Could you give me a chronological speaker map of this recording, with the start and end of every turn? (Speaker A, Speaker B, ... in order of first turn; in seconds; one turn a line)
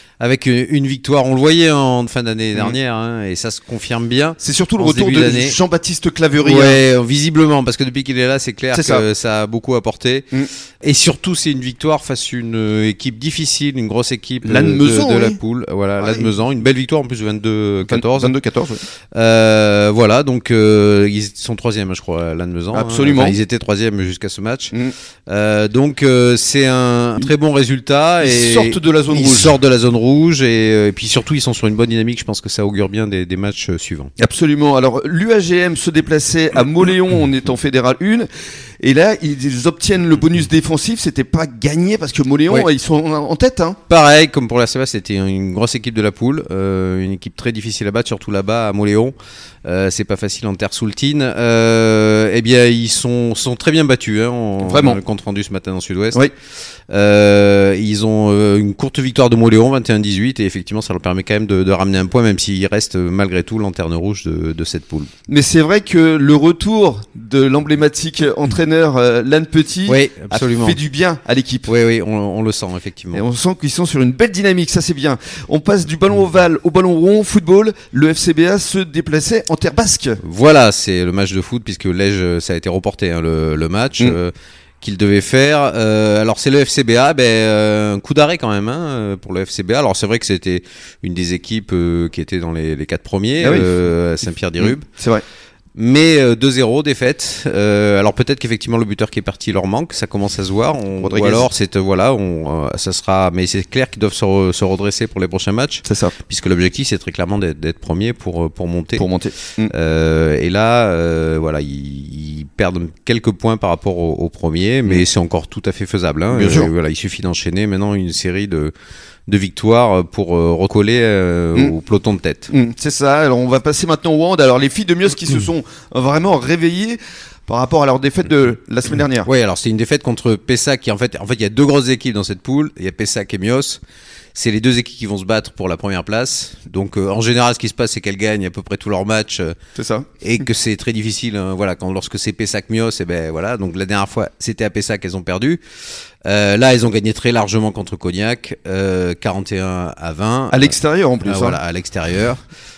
Speaker A: 0.2-5.6
Speaker B: 4.4-6.8
Speaker A: 6.4-10.2
Speaker B: 8.7-9.1
Speaker A: 10.8-18.3
Speaker B: 14.4-15.4
Speaker B: 16.0-16.3
Speaker B: 17.9-18.8
Speaker A: 19.1-24.7
Speaker B: 22.7-23.4
Speaker A: 25.3-34.1
Speaker B: 28.2-29.6
Speaker B: 34.2-38.3
Speaker B: 38.8-43.8
Speaker A: 43.9-49.1
Speaker A: 49.6-56.2
Speaker B: 54.6-55.0
Speaker A: 56.9-65.1
Speaker B: 65.3-71.7
Speaker A: 69.9-70.8
Speaker A: 71.7-73.2
Speaker B: 73.1-80.2
Speaker A: 80.2-94.8
Speaker B: 93.4-93.7
Speaker B: 94.6-95.2
Speaker A: 95.8-109.0
Speaker B: 101.0-101.5
Speaker B: 105.8-106.1
Speaker B: 109.0-109.7
Speaker A: 109.7-118.7
Speaker B: 116.3-116.7
Speaker A: 119.3-122.5
Speaker B: 122.5-129.3
Speaker A: 129.2-133.8
Speaker A: 134.3-139.5
Speaker B: 139.8-140.1
Speaker A: 140.2-145.6
Speaker A: 146.2-152.4
Speaker B: 150.5-151.6